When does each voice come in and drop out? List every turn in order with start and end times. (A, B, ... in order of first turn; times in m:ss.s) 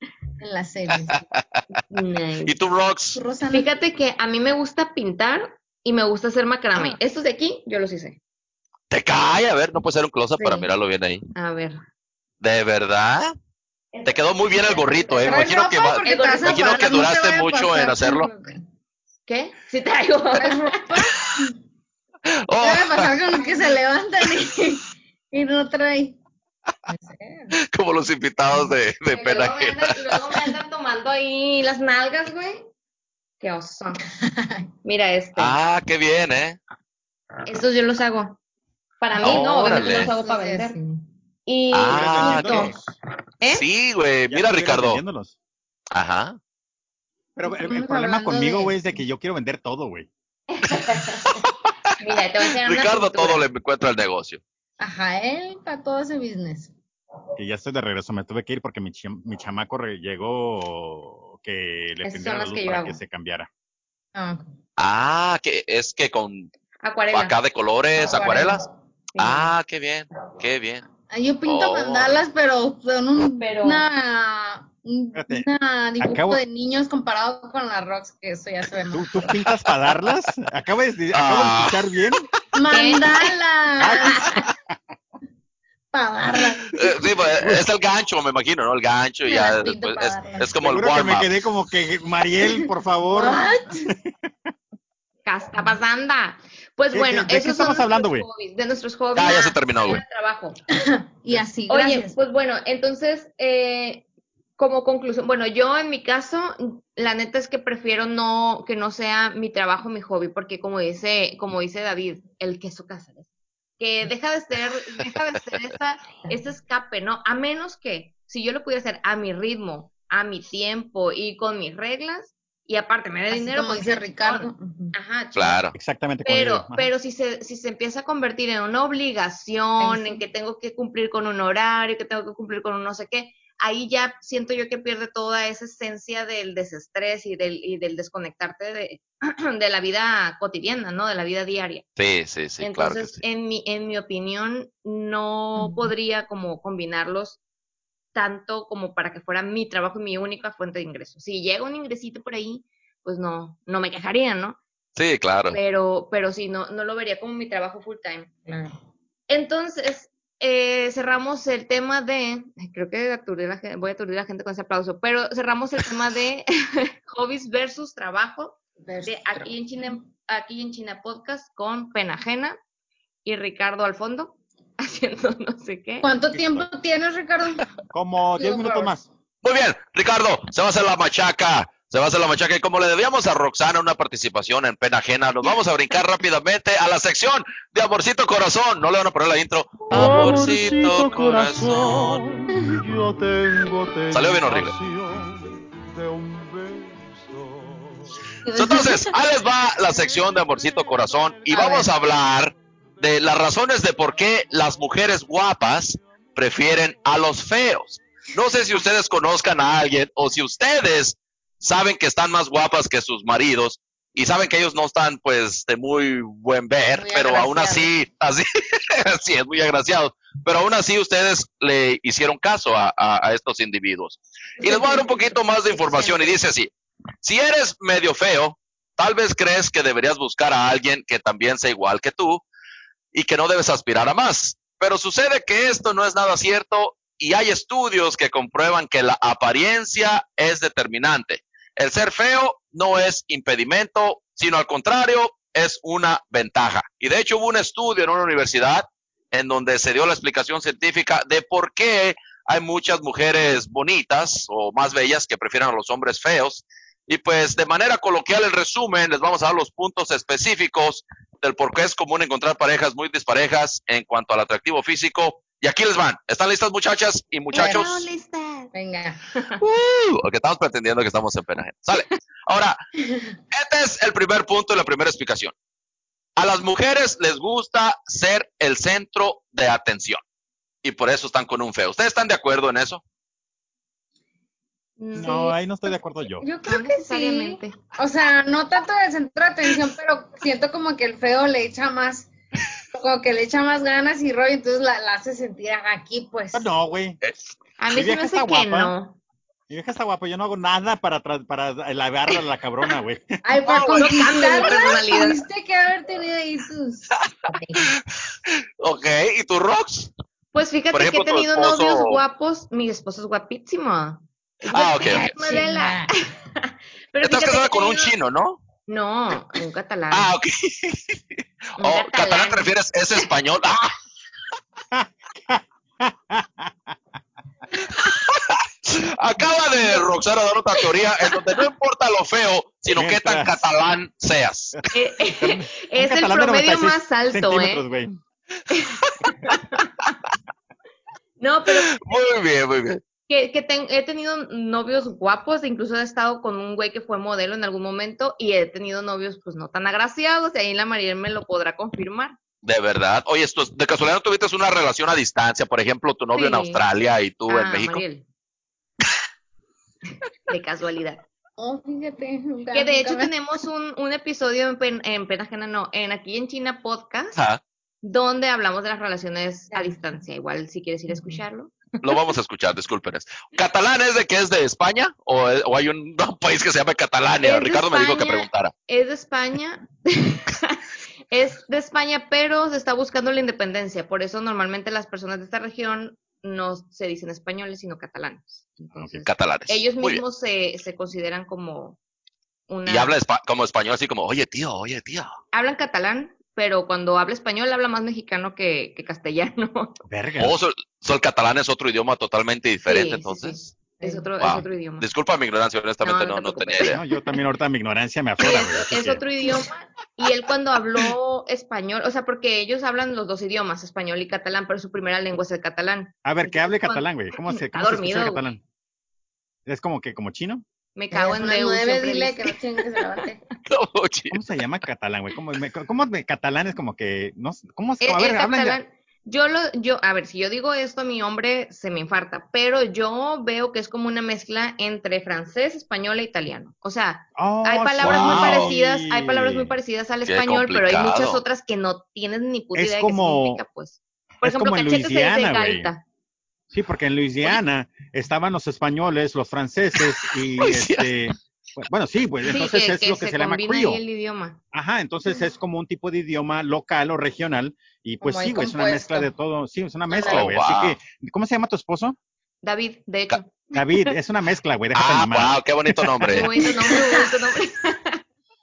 0:00.4-0:01.2 A
0:00.9-0:01.6 B
0:01.9-0:02.6 C
0:02.4-0:03.2 B
0:03.1-0:03.7 A
0:03.5-0:08.2 C
0:08.9-0:11.2 B
0:10.4-0:10.7 C
0:11.3-0:11.8 C
0:12.4-0:13.3 B
0:13.9-0:16.6 C
0:14.0-0:18.3 B
0:15.2-0:18.6 A
0:19.3-0:21.0 C
0:20.3-0:21.6 A
0:22.4-0:23.1 B
0:22.6-0:26.2 A
0:26.9-0:27.6 A
0:27.7-0:30.4 B
0:29.1-0:32.7 C
0:33.4-0:34.0 C
0:34.2-0:34.7 A
0:34.8-0:35.6 C
0:35.4-0:36.6 B
0:37.4-0:38.4 C
0:39.0-0:40.8 C
0:39.2-0:40.1 B
0:39.3-0:41.0 A
0:41.4-0:42.7 C
0:41.7-0:42.7 B
0:41.9-0:42.9 D
0:43.5-0:45.0 B
0:44.3-0:45.3 D
0:45.9-0:46.4 B
0:47.4-0:50.1 D
0:47.4-0:48.8 A
0:50.5-0:51.4 C
0:52.0-0:53.4 C
0:52.6-0:54.4 B
0:54.8-0:56.7 A
0:57.4-1:03.5 D
1:02.0-1:03.0 C
1:04.1-1:04.4 A
1:04.8-1:06.5 B
1:06.8-1:07.3 C
1:07.1-1:08.6 B
1:08.0-1:08.7 A
1:09.1-1:09.5 C
1:09.2-1:10.8 B
1:11.1-1:19.4 A
1:11.4-1:12.2 B
1:13.4-1:13.9 C
1:15.1-1:15.5 D
1:16.0-1:16.4 D
1:18.9-1:22.3 D
1:21.1-1:21.8 B
1:22.5-1:24.4 A
1:22.7-1:23.2 C
1:23.8-1:24.7 D
1:25.9-1:27.0 A
1:26.7-1:31.3 B
1:27.4-1:27.6 D
1:29.2-1:30.6 A
1:30.6-1:34.1 D
1:33.1-1:33.9 A
1:35.2-1:40.6 C
1:36.9-1:38.3 D
1:39.1-1:40.0 B
1:40.7-1:42.2 A
1:41.7-1:44.0 C
1:44.6-1:53.2 C
1:53.8-2:05.7 C
2:03.3-2:04.9 A
2:05.3-2:05.7 B
2:05.7-2:06.9 D
2:06.2-2:21.8 C
2:09.8-2:10.2 A
2:22.0-2:23.2 B
2:22.6-2:27.4 C
2:25.6-2:25.9 A
2:28.1-2:34.6 C
2:35.0-2:35.6 B
2:35.5-2:38.3 C
2:38.5-2:38.7 A
2:39.3-2:52.6 C
2:48.8-2:49.5 A
2:53.2-2:56.1 C
2:56.0-2:57.6 A
2:56.3-2:56.6 D
2:57.9-2:59.0 D
2:58.4-2:59.0 A
2:59.4-3:12.2 B
3:09.8-3:18.2 E
3:14.1-3:14.7 B
3:18.4-3:19.1 A
3:18.6-3:46.7 B
3:21.5-3:21.8 C
3:21.5-3:21.8 A
3:36.9-3:37.9 A
3:44.6-3:46.3 A
3:45.8-3:46.2 C
3:47.2-3:52.4 B
3:53.1-4:28.0 B
4:27.5-4:28.7 C
4:27.5-4:28.1 A
4:28.7-4:29.2 A
4:29.6-4:32.8 B
4:33.5-4:35.5 B
4:36.4-4:40.2 B
4:40.8-4:43.0 B
4:45.0-4:45.6 C
4:45.1-4:46.4 D
4:46.4-4:52.3 A
4:46.7-4:47.8 C
4:52.9-4:56.7 A
4:56.5-4:57.2 D
4:57.8-4:59.2 C
4:57.9-4:58.9 D
4:59.7-5:03.4 D
5:03.4-5:07.9 A
5:03.6-5:04.7 B
5:04.0-5:05.4 C
5:08.8-5:10.1 B
5:10.5-5:18.1 C
5:10.9-5:12.2 B
5:14.7-5:15.3 B
5:15.1-5:16.1 A
5:17.2-5:18.6 B
5:18.9-5:20.3 C
5:20.1-5:23.9 B
5:21.8-5:23.3 C
5:24.9-5:26.7 D
5:28.3-5:34.7 B
5:30.8-5:31.4 C
5:32.9-5:33.6 D
5:34.9-5:37.8 C
5:35.4-5:38.1 D
5:38.7-5:39.9 C
5:41.4-5:42.0 C
5:41.7-5:43.0 B
5:43.3-5:52.3 C
5:52.6-5:58.0 B
5:56.3-5:56.8 C
5:57.5-5:58.2 C
6:00.5-6:01.2 C
6:01.6-6:03.3 A
6:02.7-6:07.4 C
6:07.3-6:07.6 B
6:08.0-6:12.2 C
6:09.7-6:10.1 A
6:11.1-6:11.4 A
6:12.0-6:18.7 B
6:17.4-6:32.0 C
6:28.9-6:29.2 D
6:29.2-6:30.2 B
6:32.7-6:33.1 C
6:32.8-6:35.3 B
6:35.5-6:40.0 C
6:40.0-6:40.6 D
6:40.4-6:43.8 B
6:42.8-6:45.1 C
6:44.0-6:44.3 A
6:44.4-6:47.0 B
6:46.0-6:47.0 C
6:46.8-6:49.2 D
6:48.4-6:58.5 C
6:56.2-6:58.6 D
6:59.6-7:00.6 D
7:01.0-7:02.6 C
7:01.1-7:03.4 A
7:03.6-7:04.4 B
7:04.3-7:08.8 D
7:08.0-7:26.0 C
7:17.4-7:19.7 D
7:18.0-7:18.7 B
7:20.2-7:21.4 B
7:22.7-7:23.6 D
7:24.4-7:25.9 D
7:26.7-7:34.0 D
7:30.6-7:31.1 B
7:32.4-7:34.6 C
7:34.7-7:42.2 D
7:38.2-7:39.3 A
7:40.1-7:40.4 A
7:40.2-7:41.0 B
7:42.6-7:44.1 C
7:43.7-7:46.3 D
7:44.9-7:46.5 B
7:46.2-7:48.2 C
7:46.6-7:47.3 A